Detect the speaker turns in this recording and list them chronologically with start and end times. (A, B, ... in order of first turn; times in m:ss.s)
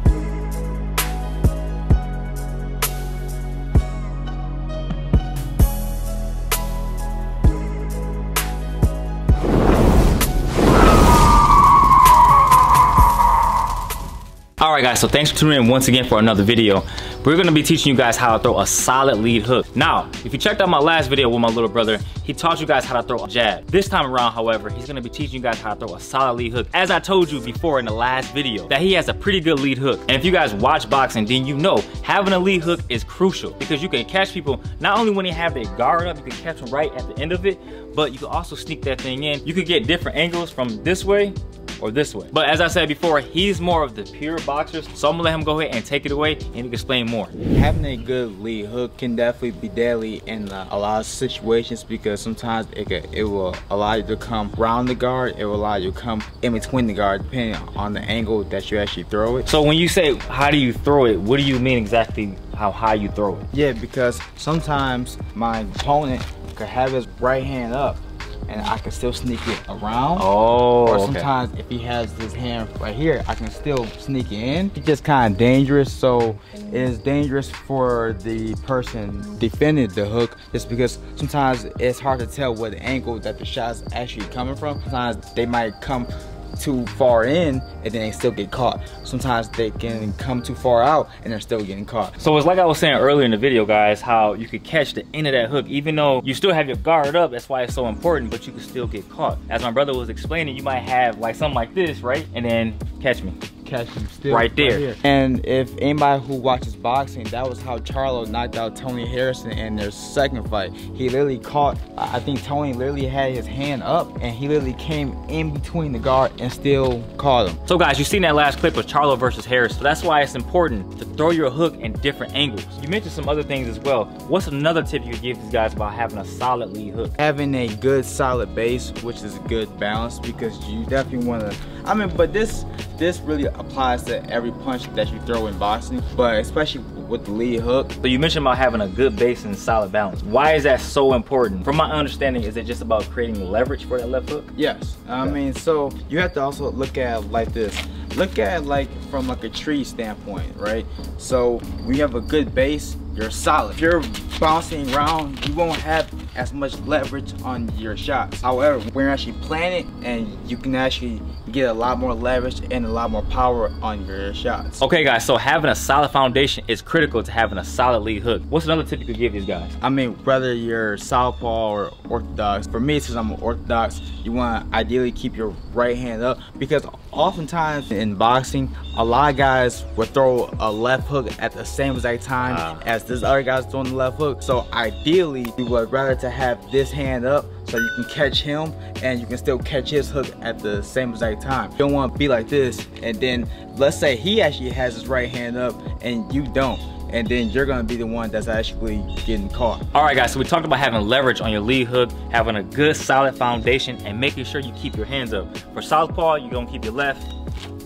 0:14.6-0:47.3 A
0:47.5-0:59.5 B
0:59.5-1:03.5 A
1:03.5-1:10.3 B
1:10.2-1:11.3 A
1:10.8-1:32.2 B
1:32.2-1:43.4 A
1:43.6-1:57.6 B
1:44.3-1:44.9 A
1:57.7-2:07.2 A
2:07.2-2:17.9 B
2:18.0-2:24.5 A
2:24.6-2:44.8 B
2:44.8-2:49.8 A
2:49.8-3:19.9 B
3:02.4-3:02.9 A
3:19.9-3:27.3 A